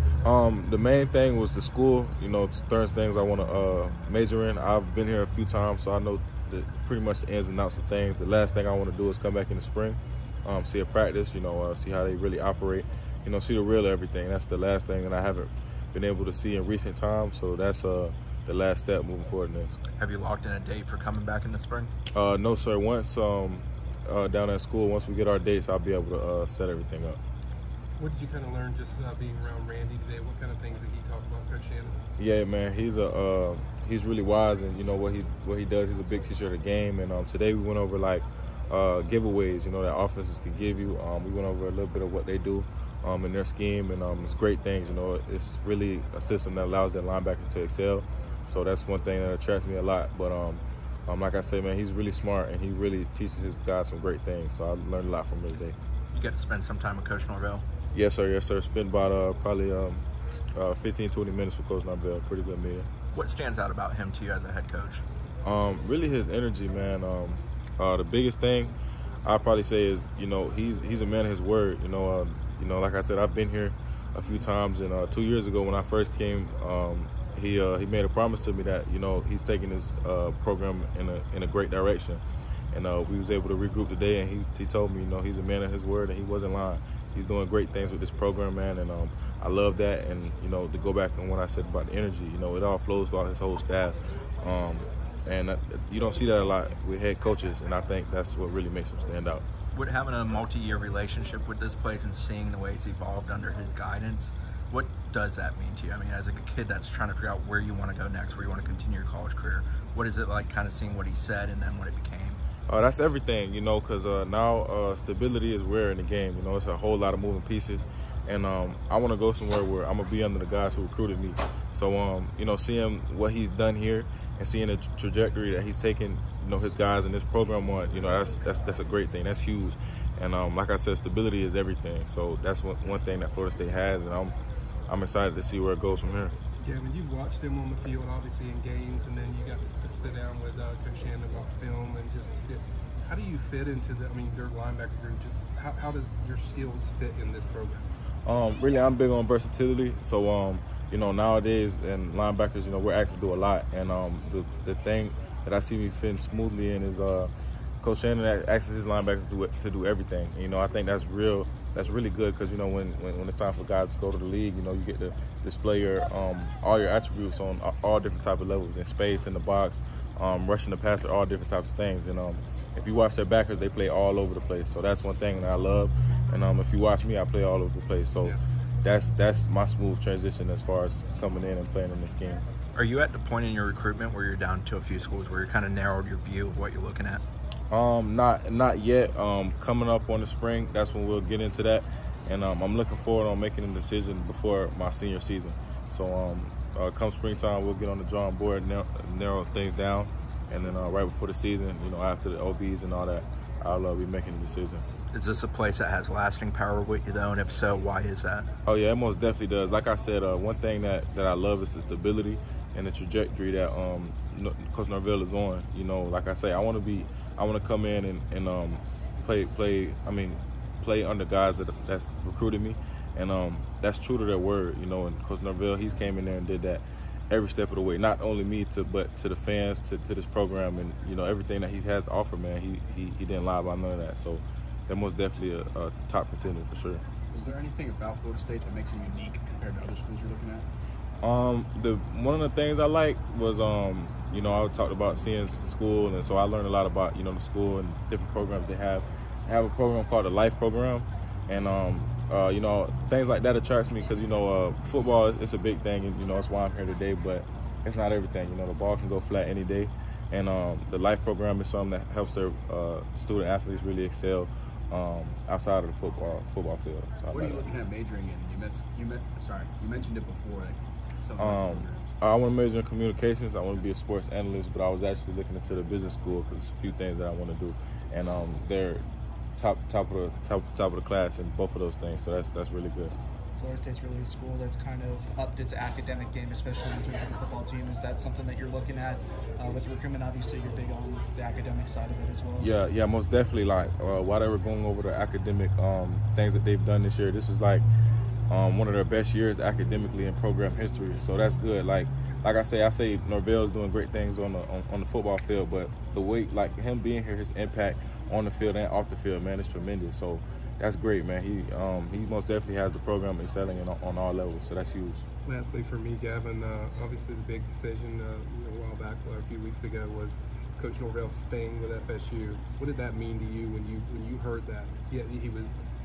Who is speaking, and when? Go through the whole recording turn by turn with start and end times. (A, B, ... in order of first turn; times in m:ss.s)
0:00.2-0:19.8 A
0:20.0-0:21.9 B
0:22.1-0:27.2 A
0:28.0-0:32.0 C
0:32.2-0:55.8 A
0:56.1-0:57.6 B
0:57.9-1:00.0 A
1:00.6-1:02.9 A
1:03.1-1:05.0 B
1:05.4-1:39.4 A
1:39.7-1:52.4 B
1:52.7-2:14.3 A
2:14.9-2:16.4 A
2:16.6-2:27.8 C
2:28.3-3:02.4 A
3:02.7-3:07.2 B
3:07.7-3:24.8 A
3:25.1-3:28.5 B
3:28.6-3:57.0 A
3:57.3-4:00.7 D
4:01.2-4:27.6 A
4:27.3-4:32.0 D
4:31.4-4:39.0 A
4:39.6-4:43.1 A
4:43.6-4:52.7 E
4:52.6-4:57.8 A
4:58.5-5:15.2 A
5:15.5-5:25.8 C